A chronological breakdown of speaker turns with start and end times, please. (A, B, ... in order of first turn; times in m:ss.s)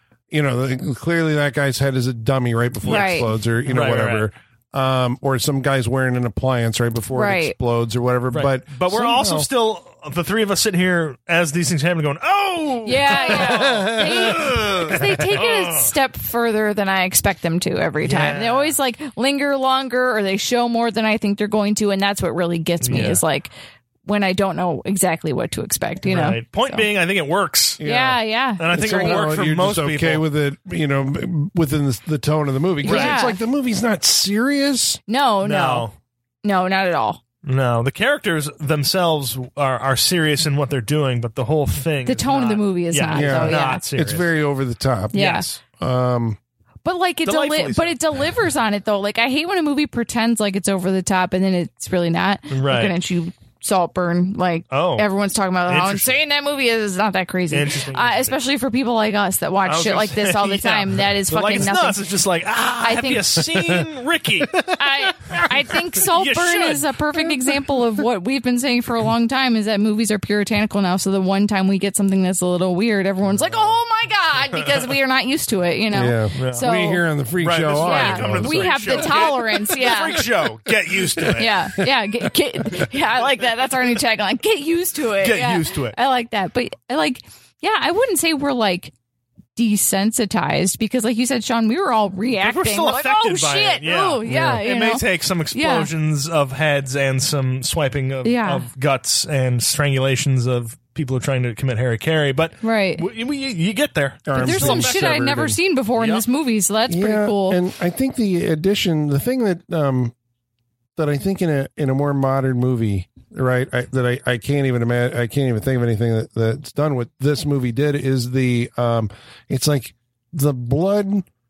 0:00.3-0:09.4 A
0:02.8-0:03.1 B
0:02.8-0:03.3 C
0:03.6-0:04.3 B
0:07.1-0:07.6 C
0:08.3-0:15.9 B
0:12.8-0:23.5 C
0:13.3-0:15.3 A
0:18.0-0:18.7 B
0:22.8-0:23.2 B
0:24.0-0:26.8 C
0:26.0-0:27.8 B
0:27.8-0:35.0 A
0:27.8-0:29.2 C
0:28.6-0:30.2 B
0:32.8-0:33.2 B
0:32.8-0:33.4 C
0:35.1-0:35.9 C
0:35.4-0:35.9 B
0:36.4-0:37.2 C
0:37.4-0:44.3 B
0:42.0-0:43.8 C
0:43.1-0:46.4 A
0:45.1-0:45.4 C
0:45.1-0:45.6 B
0:46.8-1:02.0 C
0:47.2-0:48.0 B
0:52.5-0:52.9 B
0:54.7-0:55.1 B
0:55.6-0:56.2 B
0:57.5-0:58.4 B
0:59.6-1:04.8 B
1:02.8-1:03.4 C
1:03.5-1:03.8 A
1:04.7-1:17.0 C
1:05.3-1:06.9 B
1:15.9-1:19.3 A
1:16.3-1:16.7 B
1:17.4-1:21.6 B
1:17.8-1:20.2 C
1:21.1-1:21.9 A
1:21.4-1:28.9 C
1:23.1-1:23.7 B
1:25.2-1:26.0 B
1:29.5-1:35.9 C
1:32.3-1:45.2 B
1:34.3-1:34.6 A
1:38.2-1:38.6 C
1:42.6-1:43.0 C
1:44.3-1:45.6 A
1:44.4-1:47.6 C
1:46.0-1:46.2 B
1:46.9-1:50.1 A
1:51.0-2:01.2 A